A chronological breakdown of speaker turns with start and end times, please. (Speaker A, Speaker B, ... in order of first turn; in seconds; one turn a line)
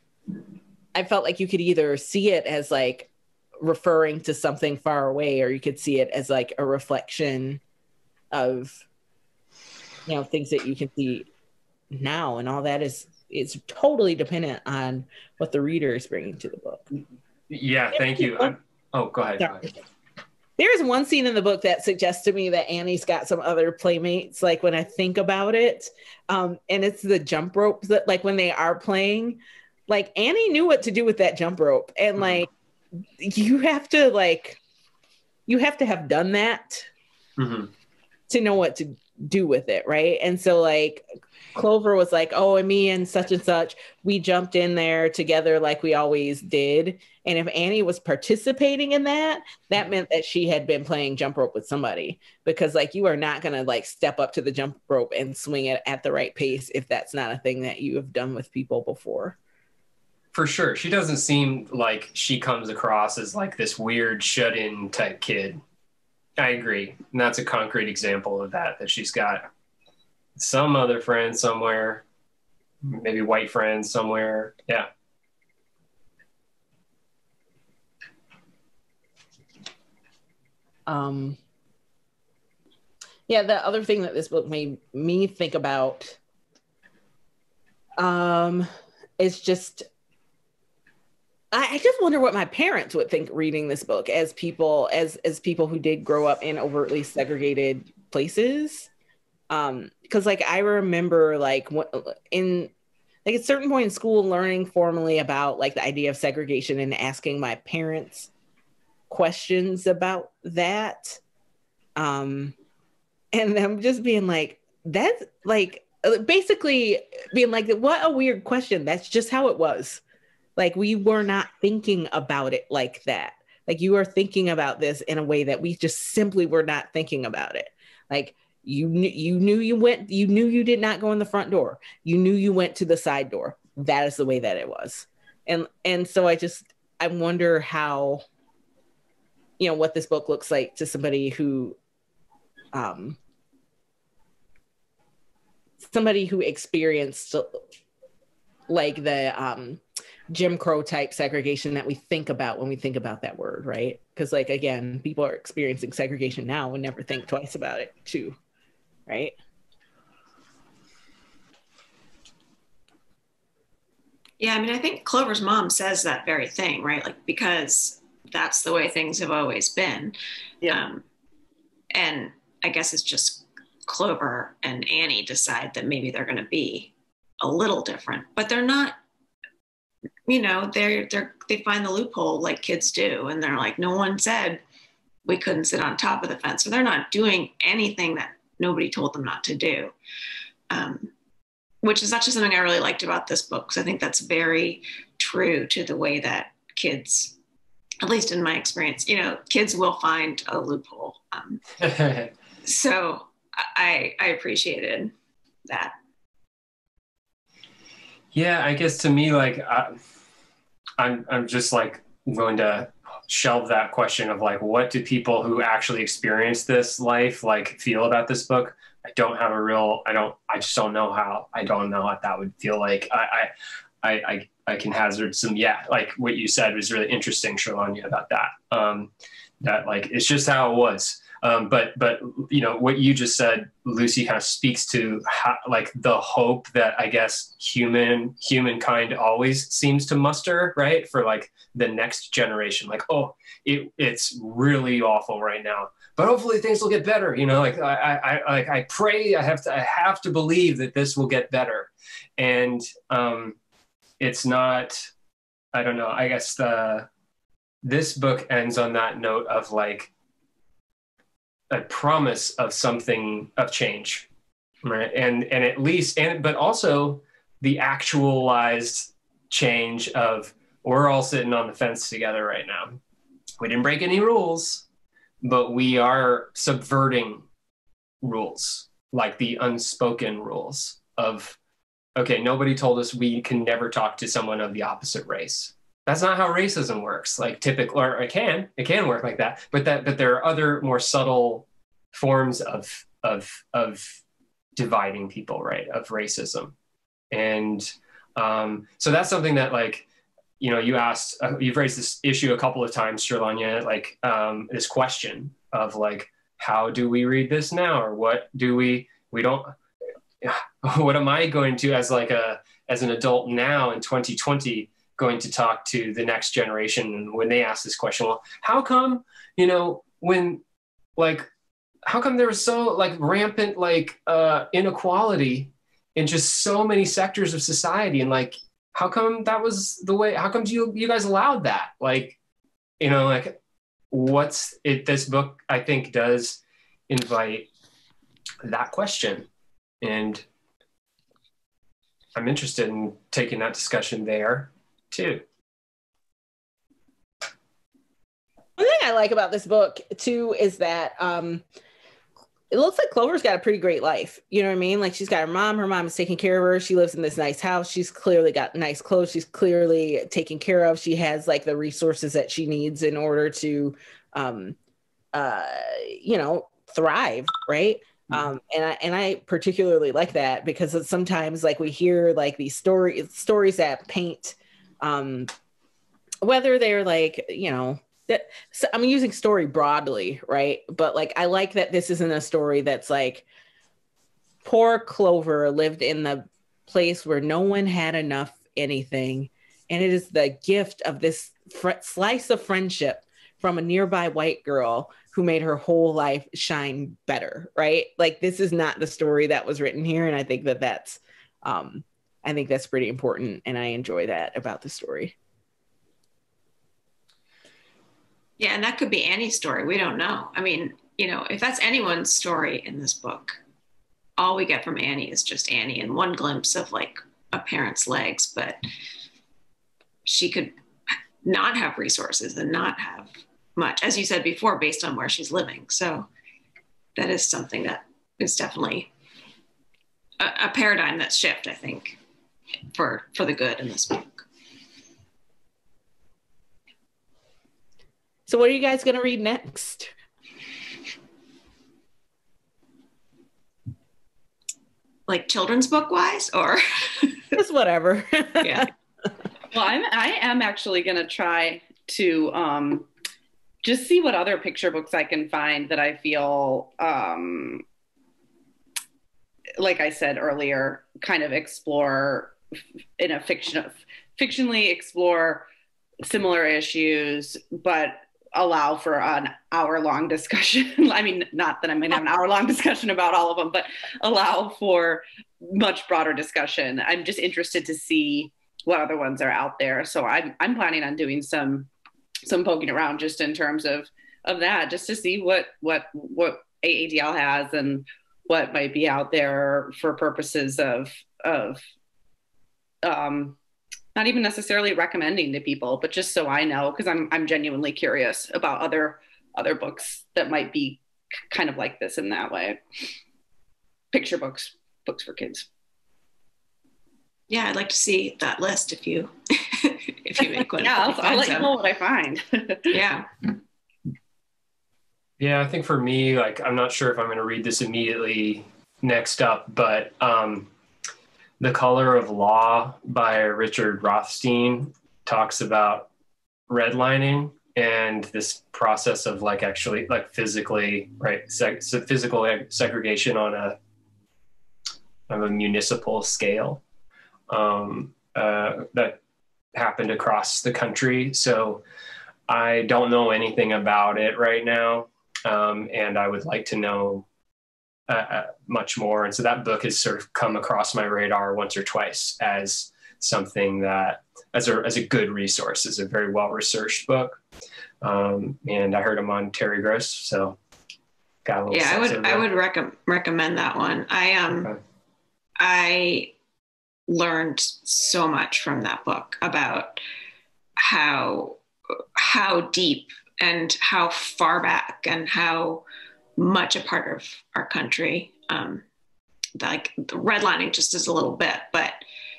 Speaker A: 0.9-7.6
Speaker A: 8.3-8.8
Speaker A: 10.1-11.3
Speaker A: 11.9-16.8
Speaker B: 17.5-19.7
Speaker A: 17.9-18.5
Speaker A: 20.6-32.5
Speaker B: 32.2-32.4
Speaker A: 33.2-34.6
Speaker A: 35.5-36.9
Speaker B: 37.4-37.7
Speaker A: 38.3-41.0
Speaker A: 41.5-59.4
Speaker B: 60.3-65.6
Speaker B: 66.4-69.5
Speaker B: 70.4-72.0
Speaker B: 72.8-74.9
Speaker A: 80.9-81.4
Speaker A: 83.3-86.2
Speaker A: 88.0-88.7
Speaker A: 89.2-89.9
Speaker A: 91.5-98.9
Speaker A: 99.5-102.7
Speaker A: 103.2-108.3
Speaker A: 109.1-111.2
Speaker A: 112.0-112.5
Speaker A: 113.3-120.0
Speaker A: 120.6-138.2
Speaker A: 139.6-141.8
Speaker A: 142.7-143.2
Speaker A: 145.8-147.6
Speaker A: 148.7-158.4
Speaker A: 159.1-159.3
Speaker C: 164.4-171.0
Speaker C: 171.9-179.0
Speaker C: 180.3-184.6
Speaker C: 185.2-189.9
Speaker C: 190.7-191.1
Speaker C: 191.8-197.4
Speaker C: 198.0-201.7
Speaker B: 201.8-202.3
Speaker C: 202.7-205.1
Speaker C: 205.7-205.9
Speaker B: 208.3-209.9
Speaker B: 211.0-223.5
Speaker B: 224.0-229.1
Speaker B: 229.6-253.6
Speaker B: 254.2-255.1
Speaker B: 255.7-257.1
Speaker B: 257.8-260.1
Speaker B: 261.7-264.3
Speaker B: 264.8-273.0
Speaker B: 273.6-274.9
Speaker B: 275.4-277.4
Speaker B: 278.2-281.6
Speaker B: 282.2-294.2
Speaker B: 294.8-296.7
Speaker B: 297.3-300.1
Speaker B: 300.6-309.7
Speaker B: 310.4-320.6
Speaker B: 321.2-321.5
Speaker B: 322.1-332.4
Speaker B: 333.0-333.6
Speaker B: 334.1-337.7
Speaker B: 338.6-339.5
Speaker B: 340.0-340.4
Speaker B: 342.4-345.4
Speaker A: 348.8-351.6
Speaker A: 352.7-364.8
Speaker A: 365.3-375.5
Speaker A: 376.4-383.4
Speaker A: 384.6-405.4
Speaker C: 408.6-413.6
Speaker C: 414.4-418.8
Speaker C: 420.2-420.8
Speaker C: 421.4-426.3
Speaker C: 427.2-429.1
Speaker C: 430.4-432.2
Speaker C: 432.9-434.4
Speaker A: 438.5-440.1
Speaker C: 445.3-447.4
Speaker A: 447.5-448.9
Speaker C: 448.6-448.9
Speaker D: 449.7-453.1
Speaker D: 453.8-457.8
Speaker D: 459.8-462.6
Speaker D: 463.2-465.7
Speaker D: 466.2-481.9
Speaker D: 482.5-491.8
Speaker D: 493.0-493.6
Speaker D: 494.1-502.8
Speaker D: 504.1-505.7
Speaker C: 507.5-511.7
Speaker D: 510.4-513.0
Speaker C: 512.9-513.3
Speaker B: 515.4-520.7
Speaker B: 521.6-526.1
Speaker B: 526.7-533.8
Speaker B: 535.3-536.8
Speaker B: 537.5-539.2
Speaker B: 539.8-541.8
Speaker B: 542.5-547.3
Speaker B: 548.1-557.4
Speaker B: 558.0-560.6
Speaker B: 561.5-562.5
Speaker C: 561.7-564.7
Speaker C: 565.6-566.3
Speaker C: 567.1-570.0
Speaker C: 570.8-571.6
Speaker C: 572.2-575.8
Speaker C: 576.4-578.8
Speaker C: 579.6-582.0